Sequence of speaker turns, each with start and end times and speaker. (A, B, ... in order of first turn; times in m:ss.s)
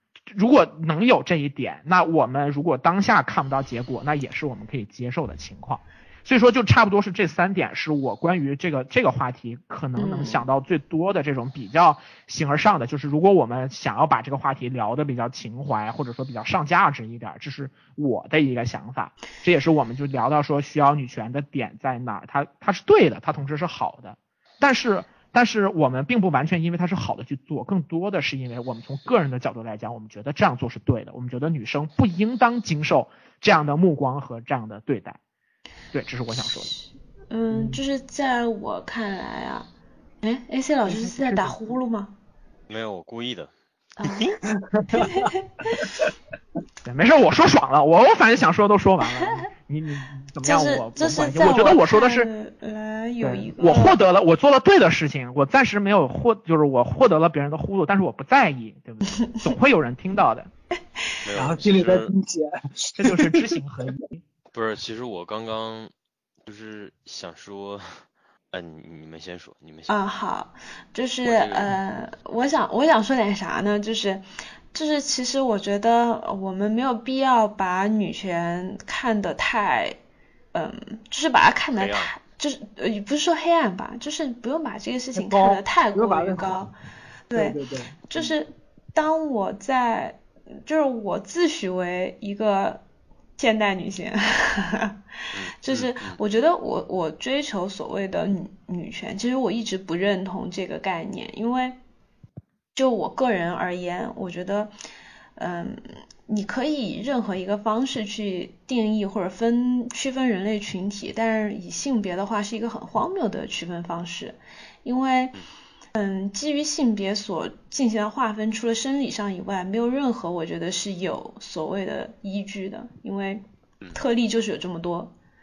0:00.3-0:35.2 A
0:10.0-0:10.4 B
0:35.9-0:36.7 A
0:37.3-0:39.7 B
0:40.2-0:42.1 B
0:40.9-0:41.5 A
0:42.7-0:44.4 C
0:44.0-0:44.3 B
0:44.7-0:45.2 D
0:44.9-0:45.8 B
0:46.8-0:52.3 A
0:50.4-0:54.0 B
0:53.2-1:00.5 A
1:01.2-1:02.1 C
1:01.3-1:03.6 D
1:03.0-1:04.2 A
1:04.5-1:05.9 C
1:06.4-1:09.9 C
1:09.9-1:20.0 B
1:11.2-1:11.7 C
1:20.5-1:26.7 B
1:21.8-1:22.1 C
1:25.1-1:26.6 D
1:27.3-1:27.6 B
1:27.3-1:28.3 D
1:28.1-1:32.8 B
1:33.4-1:35.0 B
1:35.3-1:36.2 C
1:35.6-1:41.8 B
1:42.7-1:44.7 B
1:45.4-1:55.4 B
1:55.9-2:03.4 B
2:03.9-2:05.1 B